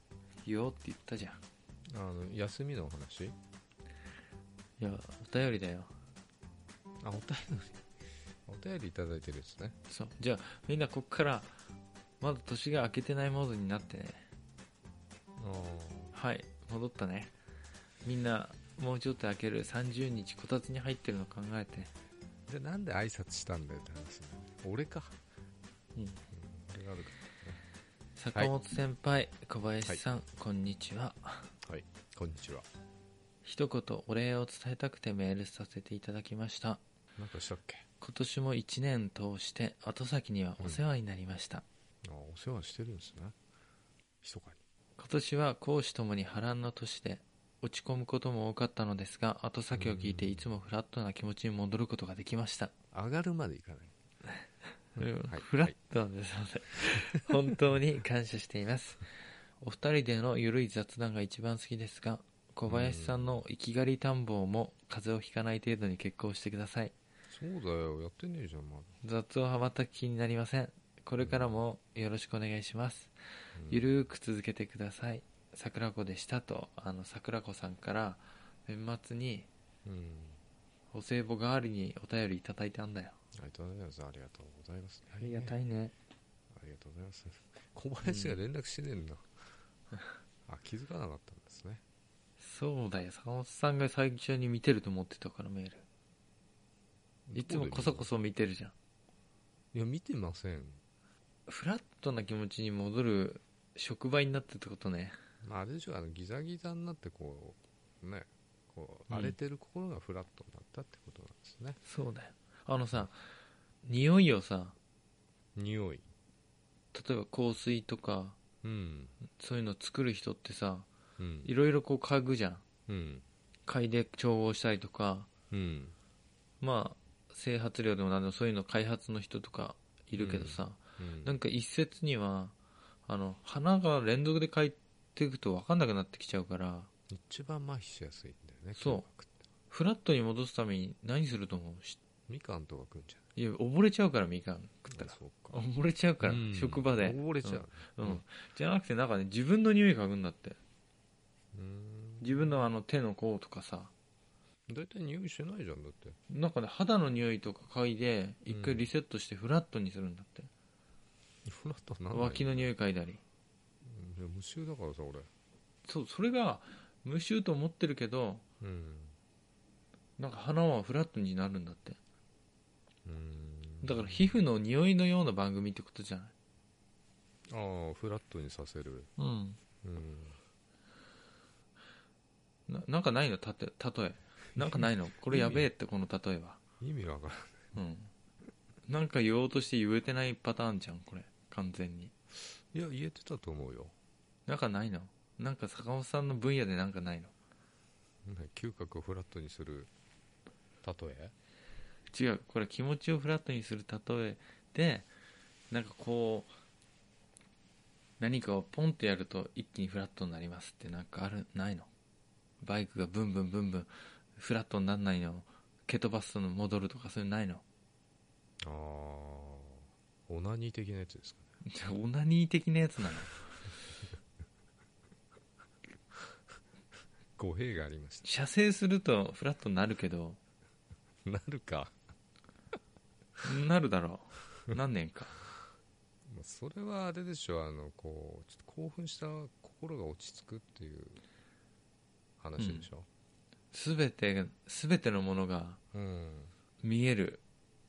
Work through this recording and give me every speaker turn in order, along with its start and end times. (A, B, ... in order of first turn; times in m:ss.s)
0:00.4-0:01.4 A
0:01.9-0:03.4 B
0:04.8-0:05.9 A
0:07.0-0:07.8 B
0:08.5-0:09.8 B
0:09.9-0:11.5 A
0:12.2-0:14.2 A
0:15.4-0:16.1 B
0:16.1-0:17.3 A
0:18.0-0:21.9 A
0:22.5-0:25.2 B
0:26.0-0:26.2 A
0:26.3-0:27.6 B
0:28.2-0:31.5 A
0:31.6-0:32.7 B
0:33.4-0:36.8 A
0:37.2-0:37.9 B
0:38.0-0:41.6 A
0:42.0-0:43.4 B
0:44.2-0:44.6 B
0:45.0-0:52.7 A
0:49.7-0:50.4 B
0:52.9-0:53.9 B
0:55.0-0:55.8 B
0:55.0-0:59.0 A
0:59.6-1:07.0 A
1:02.7-1:03.4 B
1:07.3-1:09.0 B
1:09.0-1:13.2 A
1:11.2-1:11.6 B
1:13.6-1:13.9 B
1:13.7-1:19.5 A
1:19.8-1:20.4 B
1:20.9-1:23.2 A
1:23.3-1:25.6 B
1:25.2-1:25.9 A
1:26.5-1:29.3 B
1:28.0-1:28.4 A
1:30.5-1:31.8 B
1:32.4-1:35.8 A
1:37.3-1:38.1 B
1:37.3-1:38.7 A
1:39.7-1:40.8 B
1:41.5-1:45.2 A
1:45.4-1:51.8 B
1:49.1-1:49.4 A
1:51.8-1:53.2 A
1:53.8-1:54.8 A
1:55.6-1:56.1 B
1:56.9-1:58.4 A
1:58.6-1:59.2 B
1:59.4-2:00.9 A
2:01.2-2:01.5 B
2:01.4-2:02.6 A
2:02.9-2:03.3 B
2:03.7-2:05.3 A
2:05.5-2:06.0 B
2:06.6-2:12.6 A
2:10.1-2:11.4 B
2:13.1-2:16.9 A
2:17.1-2:19.5 B
2:18.8-2:19.1 A
2:19.7-2:22.0 A
2:22.3-2:23.2 B
2:23.4-2:30.6 A
2:24.9-2:25.6 B
2:26.2-2:28.2 B
2:31.5-2:32.4 B
2:32.2-2:33.9 A
2:34.7-2:36.2 B
2:36.3-2:40.5 A
2:38.5-2:38.9 B
2:41.4-2:42.7 B
2:42.1-2:43.2 A
2:43.8-2:45.3 B
2:45.9-2:48.4 A
2:48.6-2:49.2 B
2:50.2-2:52.0 A
2:53.0-2:54.4 B
2:53.8-2:56.3 A
2:57.5-2:59.1 B
2:59.2-2:59.6 A
2:59.8-3:00.4 B
3:02.7-3:06.6 A
3:04.6-3:05.7 B
3:06.8-3:07.7 B
3:07.8-3:08.1 A
3:08.9-3:12.1 A
3:12.5-3:13.9 B
3:14.5-3:17.3 A
3:18.2-3:19.9 B
3:20.8-3:21.3 B
3:22.1-3:25.1 A
3:25.7-3:26.5 A
3:28.2-3:31.9 A
3:32.6-3:37.6 A
3:38.6-3:41.5 B
3:41.6-3:43.4 A
3:47.4-3:48.3 B
3:48.3-3:50.4 A
3:51.2-3:52.0 B
3:53.4-3:55.4 A
3:56.3-4:01.2 B
4:02.4-4:03.1 B
4:02.6-4:02.9 A
4:03.7-4:05.8 A
4:05.9-4:06.5 B
4:06.8-4:07.4 A